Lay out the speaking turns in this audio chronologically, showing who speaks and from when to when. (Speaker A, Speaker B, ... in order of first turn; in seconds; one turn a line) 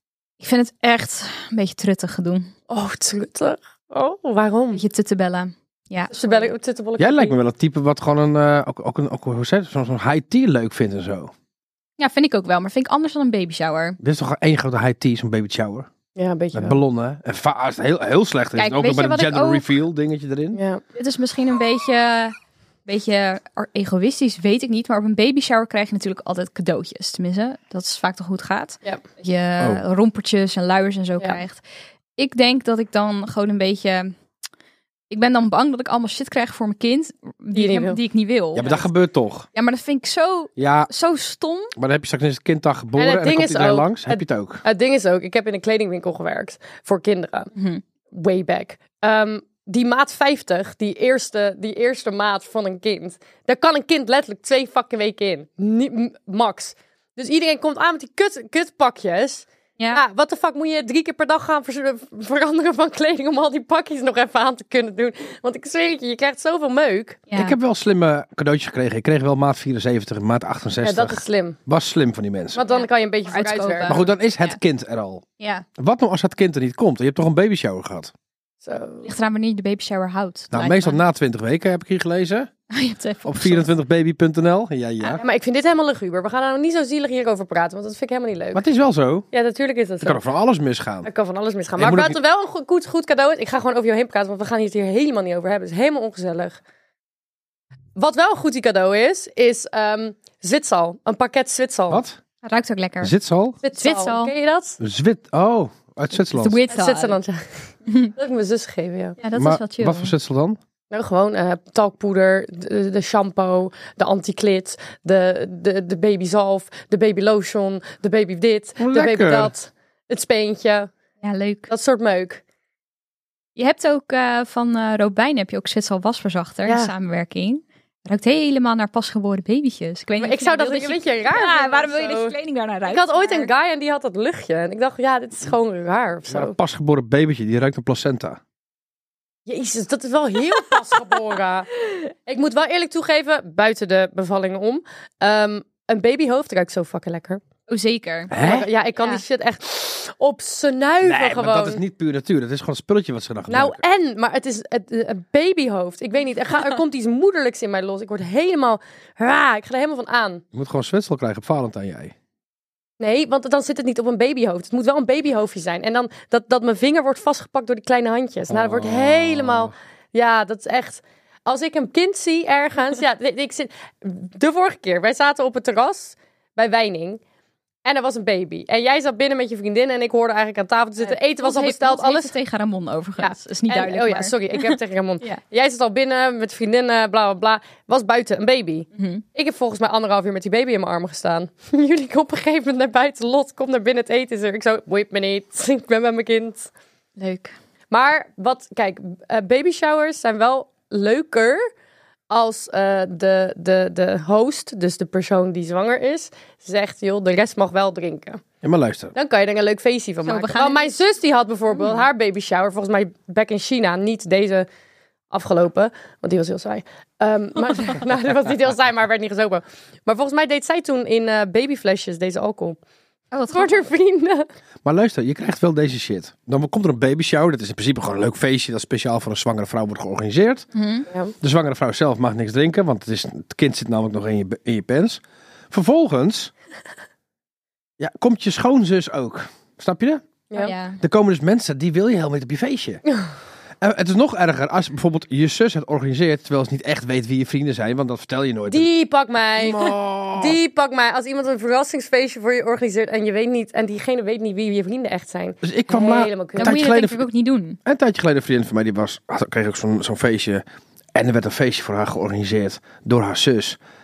Speaker A: 0.4-2.5
Speaker B: 2.7-4.8
Speaker A: 4.7-6.5
Speaker B: 6.1-7.4
Speaker C: 7.0-11.3
Speaker A: 12.0-14.0
Speaker C: 14.0-15.9
Speaker B: 16.1-16.8
Speaker C: 16.5-20.6
Speaker A: 18.6-19.7
Speaker B: 20.5-20.8
Speaker A: 20.9-22.3
Speaker A: 22.9-31.6
Speaker A: 32.2-34.1
Speaker A: 35.1-38.7
Speaker B: 37.5-38.0
Speaker C: 38.5-39.5
Speaker A: 39.5-41.7
Speaker C: 40.6-40.9
Speaker C: 41.8-44.6
Speaker B: 43.0-47.5
Speaker A: 47.5-47.8
Speaker B: 48.1-67.2
Speaker A: 67.3-67.6
Speaker C: 67.3-72.6
Speaker B: 70.8-71.6
Speaker B: 72.5-74.0
Speaker A: 72.6-74.6
Speaker C: 73.9-75.2
Speaker A: 75.4-75.7
Speaker C: 75.8-78.1
Speaker B: 78.6-79.1
Speaker A: 79.0-81.0
Speaker C: 80.5-82.5
Speaker A: 82.7-83.7
Speaker C: 83.2-85.2
Speaker B: 85.2-88.6
Speaker C: 88.5-89.3
Speaker B: 89.3-90.2
Speaker C: 90.0-91.1
Speaker B: 91.0-96.6
Speaker C: 91.8-92.2
Speaker B: 98.0-102.0
Speaker C: 101.9-102.2
Speaker A: 102.4-103.1
Speaker C: 103.0-103.6
Speaker B: 103.6-104.8
Speaker A: 103.7-104.3
Speaker C: 104.8-106.6
Speaker A: 106.1-107.2
Speaker B: 106.7-109.2
Speaker A: 109.2-110.1
Speaker C: 109.3-110.6
Speaker B: 110.9-120.9
Speaker C: 118.8-119.5
Speaker A: 121.2-121.7
Speaker B: 121.7-122.4
Speaker A: 123.5-133.5
Speaker B: 126.7-126.9
Speaker B: 130.2-132.3
Speaker B: 132.9-136.6
Speaker C: 136.3-138.4
Speaker B: 139.5-141.7
Speaker B: 142.3-147.4
Speaker A: 147.7-149.2
Speaker C: 148.3-148.7
Speaker B: 148.4-151.8
Speaker C: 151.0-153.8
Speaker B: 153.5-160.4
Speaker C: 160.5-162.1
Speaker B: 163.0-177.2
Speaker C: 168.5-169.7
Speaker B: 177.8-182.3
Speaker A: 181.0-185.4
Speaker B: 183.2-196.7
Speaker A: 188.9-189.2
Speaker A: 197.2-197.5
Speaker B: 197.9-201.6
Speaker B: 202.3-208.4
Speaker C: 208.6-209.1
Speaker B: 209.1-214.7
Speaker A: 210.2-210.9
Speaker A: 211.7-212.0
Speaker B: 215.3-222.8
Speaker A: 223.3-223.9
Speaker B: 223.5-224.5
Speaker C: 224.8-230.7
Speaker A: 230.7-231.1
Speaker C: 231.4-236.5
Speaker C: 238.0-240.2
Speaker B: 240.5-240.8
Speaker A: 240.6-241.0
Speaker C: 241.0-243.0
Speaker C: 243.8-248.9
Speaker B: 248.7-256.8
Speaker C: 249.6-250.6
Speaker C: 255.6-257.3
Speaker A: 256.6-257.8
Speaker C: 257.9-260.6
Speaker C: 261.1-263.8